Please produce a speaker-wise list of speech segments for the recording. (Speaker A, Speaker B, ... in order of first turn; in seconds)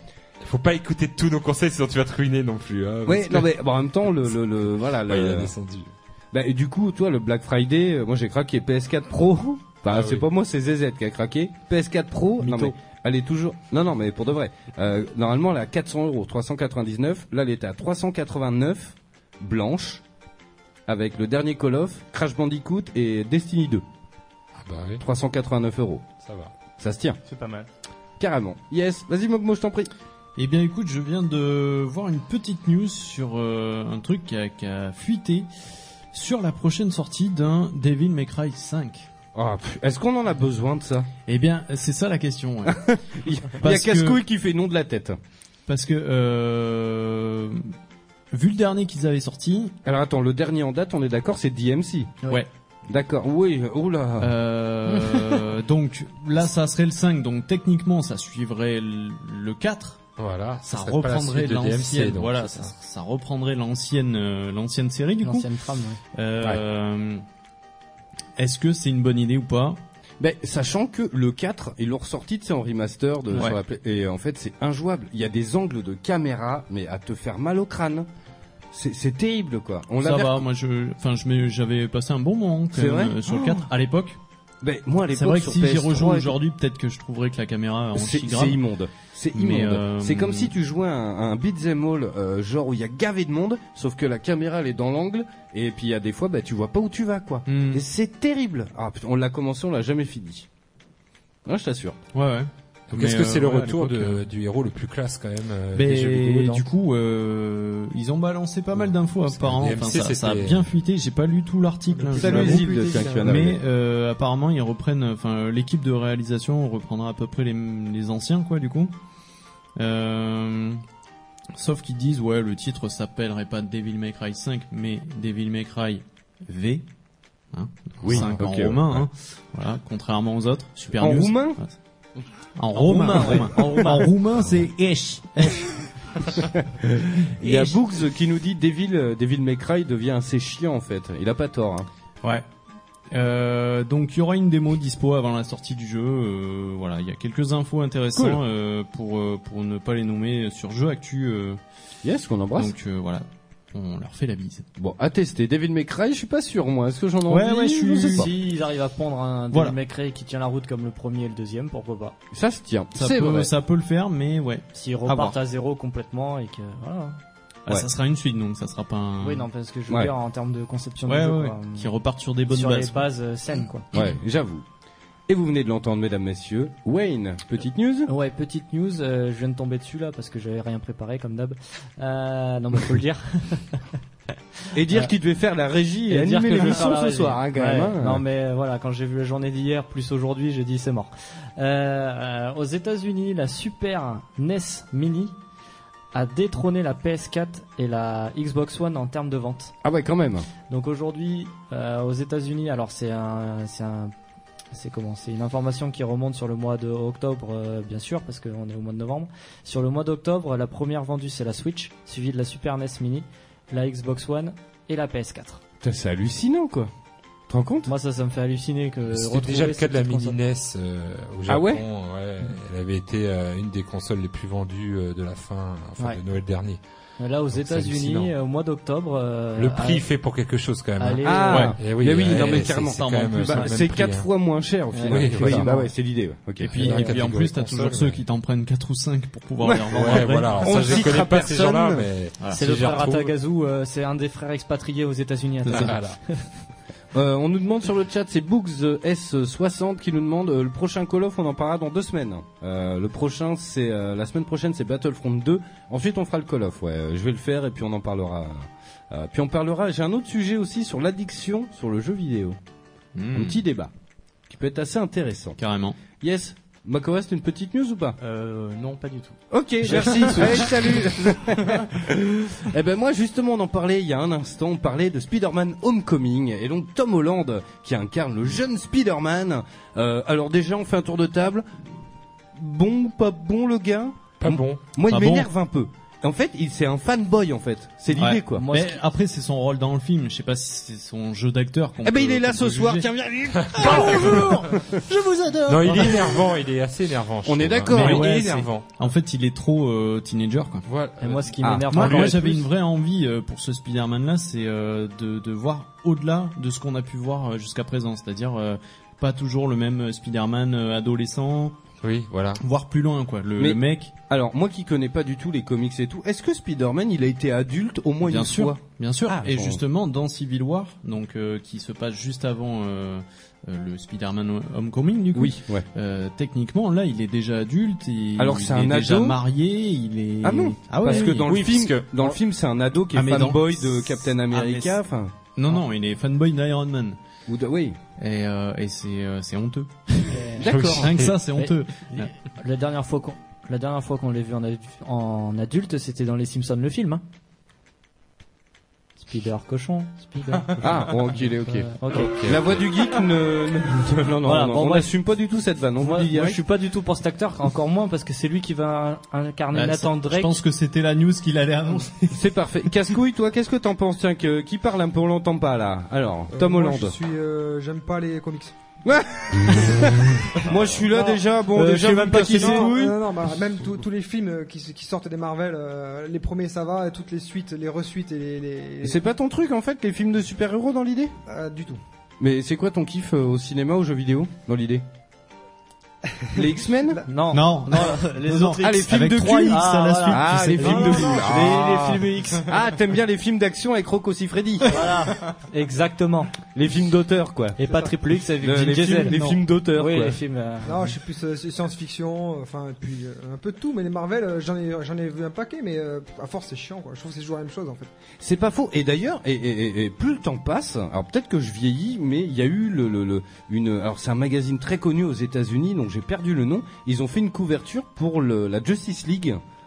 Speaker A: 0.4-3.5, 5.0-5.9, 9.9-10.3, 24.6-25.0, 26.2-26.5, 60.2-62.7, 102.9-106.7, 109.3-110.7, 219.1-226.8, 227.5-228.3, 229.6-234.3, 235.1-235.7, 236.7-238.2, 239.9-243.3, 245.7-246.2, 284.4-284.8, 293.6-294.4, 295.7-298.9, 300.9-302.4, 312.0-312.6, 331.2-332.1, 340.6-341.4, 352.1-352.9
Speaker B: 3.1-5.5, 6.3-20.0, 20.9-23.8, 25.0-26.1, 26.8-27.2, 28.2-29.9, 39.4-41.1, 42.7-45.2, 49.9-52.2, 52.9-54.4, 70.2-78.1, 78.7-80.5, 82.7-83.7, 84.6-86.3, 88.0-100.5, 101.5-102.0, 112.2-113.6, 128.0-129.1, 131.0-131.6, 132.8-134.0, 136.4-141.9, 148.1-148.4, 152.0-152.8, 154.8-158.3, 162.3-163.5, 173.9-174.6, 175.3-178.1, 184.7-188.2, 199.8-200.5, 215.8-216.9, 217.5-217.9, 221.5-221.8, 231.2-236.7, 239.6-242.1, 247.1-262.6, 263.3-263.9, 264.5-265.6, 266.2-268.2, 269.5-281.6, 282.6-288.6, 292.0-294.9, 297.5-298.7, 301.6-301.9, 313.6-319.8, 325.3-325.9, 328.4-329.4, 330.4-335.3, 337.5-338.0, 340.6-341.1, 350.8-356.6, 362.3-367.2, 369.1-373.2, 379.0-381.3, 382.4-385.0, 386.5-387.2, 388.8-395.1, 396.8-397.8, 398.6-400.4, 408.4-419.6
Speaker C: 27.3-27.7, 268.2-269.4, 269.9-270.7
Speaker D: 30.4-35.5, 36.1-39.1, 41.3-42.8, 43.6-44.2, 45.7-47.7, 48.3-49.7, 54.2-60.0, 60.7-65.5, 66.2-67.2, 68.4-69.8, 80.0-84.2, 85.1-88.6, 89.3-90.5, 97.5-97.8, 102.1-104.2, 105.7-118.9, 119.8-120.8, 121.6-126.8, 127.5-131.8, 132.6-135.8, 137.4-137.7, 143.1-151.6, 152.6-154.7, 157.3-158.3, 163.0-165.3, 167.7-169.5, 171.1-173.1, 231.5-231.8, 232.3-233.7, 236.6-241.2, 245.7-245.9, 263.1-263.6, 265.6-266.0, 285.1-285.5, 288.1-293.1, 293.8-296.4, 297.9-300.9, 301.9-311.8, 312.6-314.1, 318.2-331.6, 333.1-335.0, 335.6-337.2, 338.2-340.5, 341.0-342.3, 359.7-362.4, 387.5-392.2
Speaker E: 65.2-66.0, 132.8-134.1, 158.1-162.2, 164.7-167.2, 169.2-171.9, 172.5-173.9, 178.1-183.8, 186.1-195.3, 196.1-199.7, 200.7-204.1, 204.7-215.6, 217.9-220.4, 227.2-230.0, 231.0-231.7, 234.9-235.9, 236.8-237.1, 242.5-246.4, 288.6-289.0, 301.2-302.6, 340.3-340.6, 341.6-347.2, 349.2-352.3, 354.4-355.1, 356.0-360.6, 371.7-373.0, 387.3-392.7, 394.9-396.5, 397.8-401.1
Speaker F: 111.9-113.4, 366.5-368.8, 371.1-371.4, 372.5-379.2, 381.5-382.0, 391.1-391.4, 400.9-408.1